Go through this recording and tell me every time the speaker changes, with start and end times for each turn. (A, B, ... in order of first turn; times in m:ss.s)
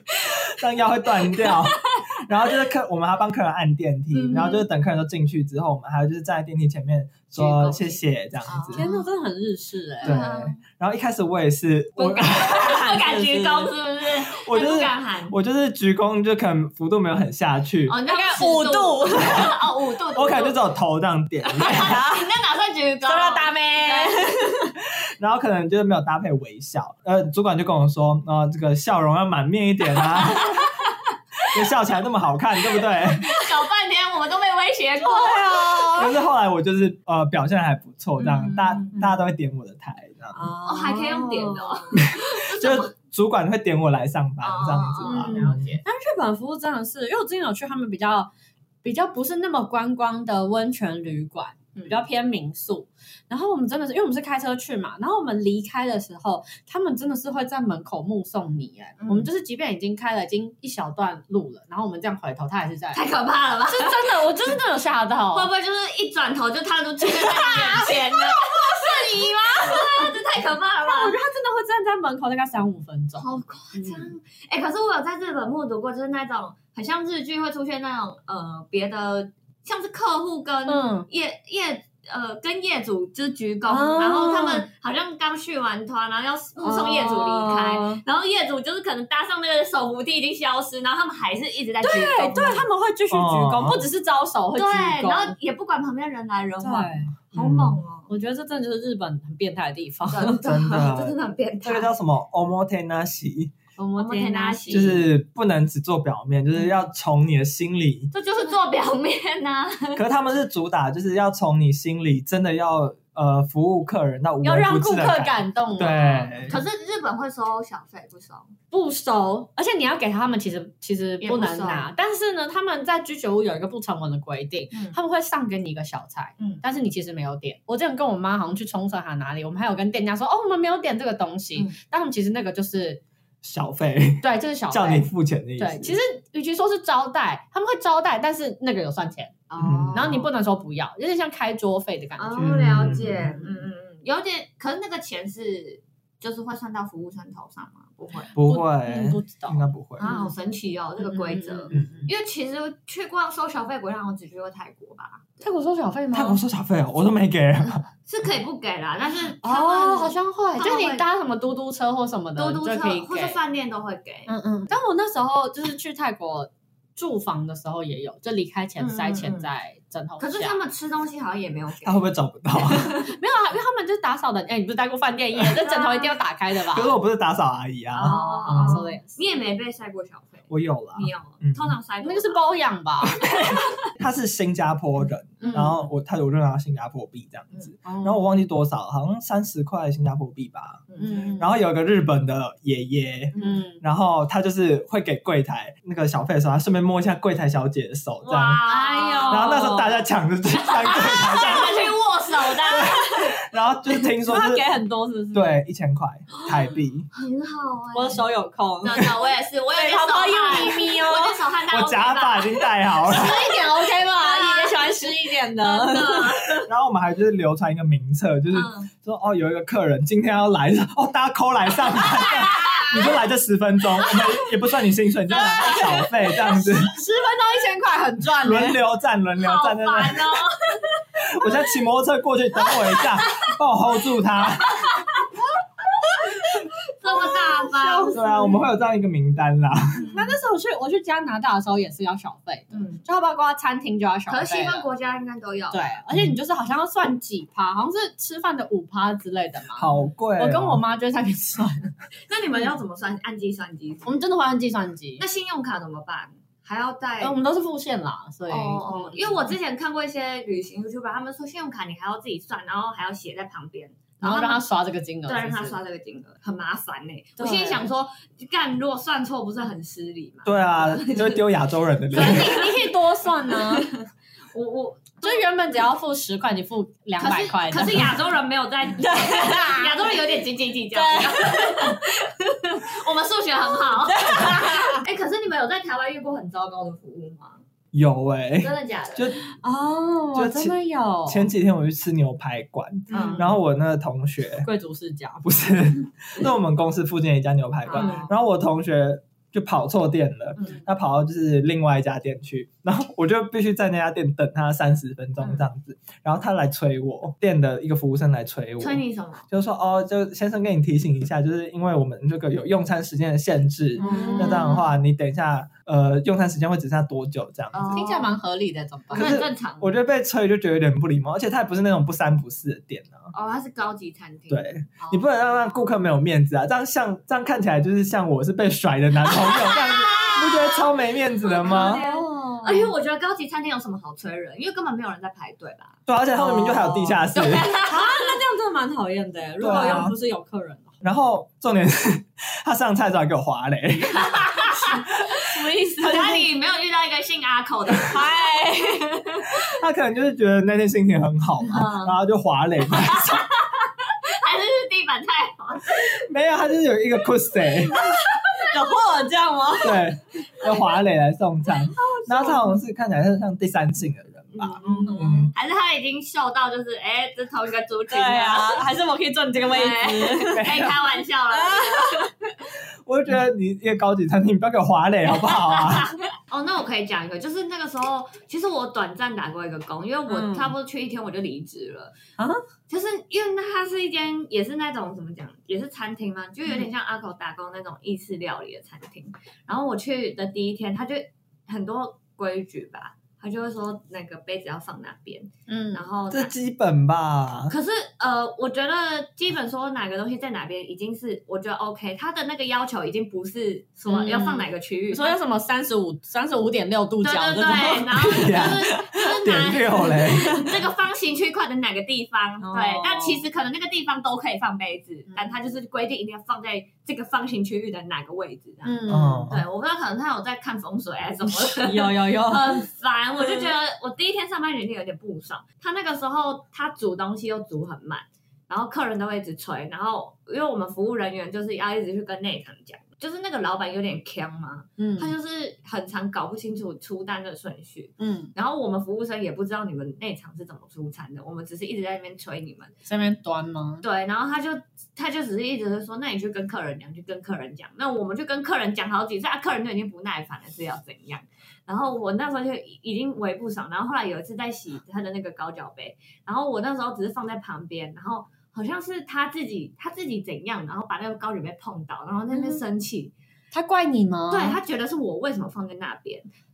0:00.2-0:08.8 A
0:01.4-0:01.7 B
0:04.1-0:04.6 B
0:07.4-0:08.0 C
0:08.4-0:09.0 B
0:08.7-0:10.2 C
0:10.0-0:10.6 B
0:10.0-0:12.7 A
0:12.0-0:15.3 B
0:12.1-0:13.7 C
0:14.3-0:18.0 A
0:17.9-0:20.6 B
0:18.0-0:19.5 C
0:20.1-0:22.0 A
0:21.5-0:24.3 B
0:21.6-0:22.2 C
0:23.0-0:24.7 C
0:25.2-0:30.6 A
0:30.0-0:31.0 B
0:31.5-0:33.3 A
0:33.1-0:35.9 B
0:35.0-0:36.1 C
0:35.9-0:40.5 A
0:38.2-0:39.0 B
0:40.3-0:42.0 C
0:40.6-0:42.9 B
0:41.9-0:45.8 A
0:44.4-0:45.8 B
0:45.0-0:48.3 C
0:48.8-1:03.0 C
0:59.0-0:59.3 B
1:02.9-1:04.5 B
1:03.7-1:05.5 C
1:05.3-1:11.2 B
1:07.0-1:10.1 C
1:10.8-1:14.1 C
1:13.2-1:32.7 B
1:20.7-1:21.1 C
1:23.7-1:24.7 C
1:26.6-1:28.0 C
1:31.8-1:35.3 C
1:33.1-1:33.8 A
1:34.6-1:38.1 B
1:36.6-1:37.2 C
1:37.3-1:37.8 A
1:38.1-1:40.4 C
1:40.1-1:41.9 B
1:40.4-1:43.5 A
1:43.8-1:45.0 C
1:44.0-1:45.0 B
1:44.7-1:48.1 A
1:48.1-1:50.0 B
1:49.9-1:56.6 A
1:54.4-1:56.5 C
1:56.4-1:58.5 B
1:58.7-2:13.0 C
2:01.2-2:01.9 B
2:04.7-2:05.0 B
2:06.4-2:06.6 B
2:13.4-2:16.0 A
2:14.2-2:23.5 C
2:19.5-2:20.3 B
2:19.6-2:20.1 A
2:22.2-2:28.3 B
2:22.4-2:23.3 A
2:28.3-2:30.1 A
2:28.4-2:30.3 C
2:30.0-2:35.4 B
2:31.0-2:32.1 C
2:35.4-2:36.4 C
2:36.1-2:37.9 A
2:38.1-2:41.0 B
2:39.4-2:43.4 C
2:42.4-2:44.3 B
2:44.3-2:50.6 C
2:48.8-2:49.5 B
2:50.2-2:52.0 B
2:51.8-2:53.0 A
2:52.7-2:56.9 C
2:55.6-2:56.2 B
2:56.7-2:58.8 A
2:57.9-3:02.4 B
2:58.0-2:59.2 C
3:00.5-3:01.8 A
3:02.0-3:03.3 C
3:03.2-3:10.8 A
3:05.4-3:05.9 B
3:05.4-3:05.8 C
3:07.8-3:08.2 C
3:10.9-3:11.4 B
3:11.0-3:11.5 C
3:11.4-3:18.6 A
3:13.3-3:13.6 B
3:13.4-3:13.8 C
3:18.2-3:19.9 B
3:18.6-3:20.0 C
3:19.3-3:22.0 A
3:20.5-3:23.3 B
3:22.6-3:24.6 A
3:22.7-3:23.0 C
3:24.2-3:25.6 C
3:25.3-3:27.1 A
3:27.1-3:28.2 B
3:27.9-3:29.1 C
3:28.8-3:36.7 B
3:29.7-3:31.4 C
3:31.7-3:33.4 A
3:33.0-3:36.6 C
3:36.7-3:47.0 A
3:38.5-3:38.9 B
3:42.0-3:42.9 C
3:42.2-3:42.9 B
3:45.3-3:48.8 C
3:45.5-3:46.1 B
3:48.4-3:50.4 A
3:49.4-3:51.0 B
3:51.2-3:55.0 A
3:52.7-3:53.0 B
3:54.8-3:55.2 B
3:56.0-3:58.6 C
3:57.0-3:58.2 B
3:58.1-4:00.1 A
4:00.0-4:00.3 B
4:00.1-4:04.9 C
4:02.7-4:03.0 B
4:04.3-4:06.0 B
4:05.7-4:11.9 C
4:09.8-4:10.8 A
4:12.3-4:14.2 B
4:14.0-4:15.2 C
4:15.2-4:17.4 B
4:17.2-4:19.5 C
4:18.5-4:24.6 B
4:24.2-4:25.8 C
4:25.3-4:31.4 B
4:27.4-4:27.8 C
4:30.4-4:32.6 A
4:32.1-4:33.9 C
4:32.1-4:32.7 B
4:33.5-4:35.5 B
4:35.2-4:38.1 C
4:37.2-4:47.6 B
4:39.0-4:40.2 C
4:40.9-4:42.1 C
4:43.6-4:45.0 C
4:47.9-4:49.4 A
4:48.6-4:49.4 B
4:49.6-4:51.5 C
4:50.3-4:54.7 A
4:53.1-4:53.6 C
4:53.1-4:53.5 B
4:54.6-4:55.6 C
4:55.4-5:18.0 A
4:57.9-4:58.3 C
4:57.9-4:58.3 B
5:00.6-5:00.8 B
5:05.4-5:05.6 B
5:08.8-5:09.4 B
5:14.0-5:14.8 C
5:14.0-5:14.9 B
5:17.7-5:18.3 B
5:17.9-5:19.3 C
5:19.1-5:20.0 B
5:19.1-5:23.3 A
5:23.3-5:24.8 B
5:24.5-5:32.0 A
5:25.0-5:25.7 C
5:29.2-5:36.0 B
5:31.6-5:32.9 C
5:36.1-5:37.7 A
5:36.3-5:41.0 C
5:37.3-5:38.3 B
5:39.6-5:40.1 A
5:39.7-5:40.0 B
5:41.0-5:44.8 A
5:44.1-5:45.1 B
5:45.3-5:46.5 C
5:46.0-5:49.5 B
5:48.0-5:49.4 C
5:49.5-5:53.5 A
5:51.7-5:52.2 B
5:52.9-5:56.2 B
5:56.2-5:58.0 A
5:57.9-5:58.8 B
5:57.9-6:00.0 C
5:59.8-6:05.5 A
6:01.9-6:02.8 C
6:04.5-6:08.8 B
6:04.8-6:05.5 C
6:08.1-6:10.8 C
6:09.6-6:12.3 B
6:10.5-6:11.0 A
6:11.5-6:12.3 C
6:13.0-6:16.1 A
6:15.4-6:22.1 B
6:20.3-6:20.7 C
6:22.9-6:36.5 B
6:35.7-6:36.0 C
6:36.3-6:37.7 A
6:37.7-6:45.4 B
6:44.1-6:48.6 C
6:47.2-7:22.9 B
6:48.1-6:50.7 A
6:52.6-6:53.4 C
6:58.8-6:59.5 C
6:59.1-6:59.6 A
7:01.4-7:02.8 C
7:03.4-7:03.7 C
7:15.0-7:15.3 C
7:18.2-7:18.5 C
7:23.0-7:24.0 C
7:24.0-7:43.3 B
7:42.5-7:42.8 C
7:43.7-7:44.8 C
7:44.5-7:46.5 B